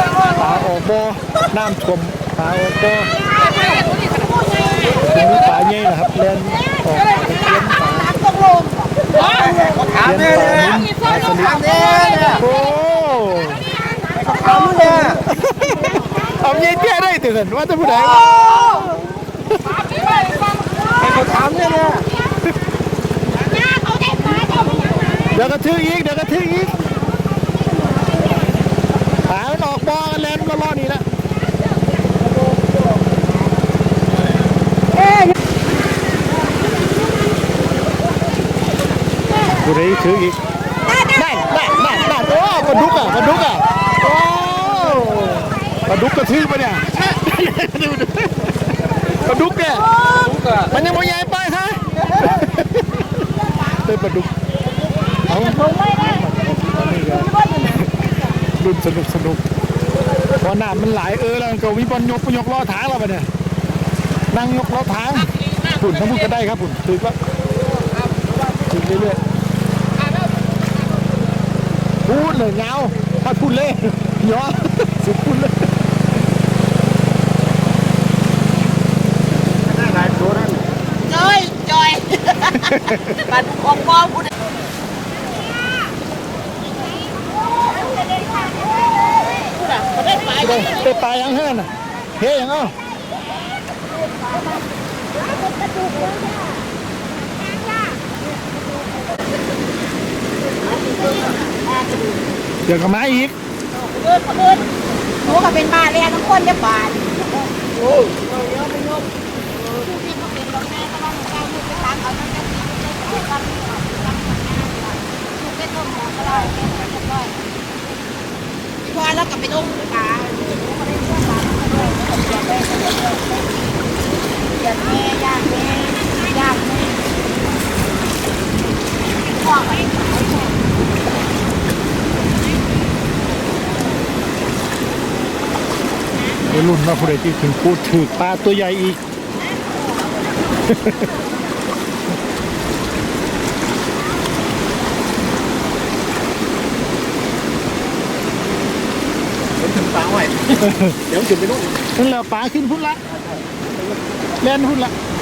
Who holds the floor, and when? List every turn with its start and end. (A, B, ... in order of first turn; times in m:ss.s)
0:00.3-0:03.1 A
0:03.2-0:05.2 B
0:04.9-0:08.2 A
0:07.3-0:09.6 B
0:09.3-0:10.8 C
0:10.0-0:11.6 A
0:11.3-0:12.4 C
0:11.6-0:12.4 B
0:12.4-0:13.7 A
0:13.9-0:15.0 B
0:14.3-0:15.2 C
0:15.3-0:19.0 A
0:21.2-0:22.0 C
0:23.4-0:25.3 B
0:25.3-0:26.8 A
0:29.3-0:31.0 A
0:39.6-0:40.4 A
0:41.1-0:48.5 A
0:49.2-0:49.9 A
0:49.9-0:50.4 B
0:50.7-0:53.0 A
0:53.8-0:54.3 A
0:55.3-0:57.9 A
0:58.6-0:59.4 A
1:00.4-1:03.3 A
1:04.3-1:07.2 A
1:08.7-1:09.2 A
1:12.0-1:15.7 A
1:20.0-1:20.3 C
1:21.0-1:24.3 B
1:22.6-1:23.2 A
1:28.2-1:30.9 B
1:30.4-1:32.7 A
1:35.7-1:36.3 B
1:40.8-1:42.2 B
1:42.6-1:43.3 A
1:43.7-1:44.7 B
1:45.2-1:47.2 B
1:49.7-1:57.5 B
1:58.8-2:03.6 B
2:04.4-2:07.0 B
2:09.3-2:10.5 B
2:16.4-2:19.0 A
2:20.7-2:21.0 A
2:29.6-2:30.5 C
2:30.6-2:31.0 A
2:31.1-2:31.7 C
2:32.0-2:33.0 A
2:34.4-2:34.9 A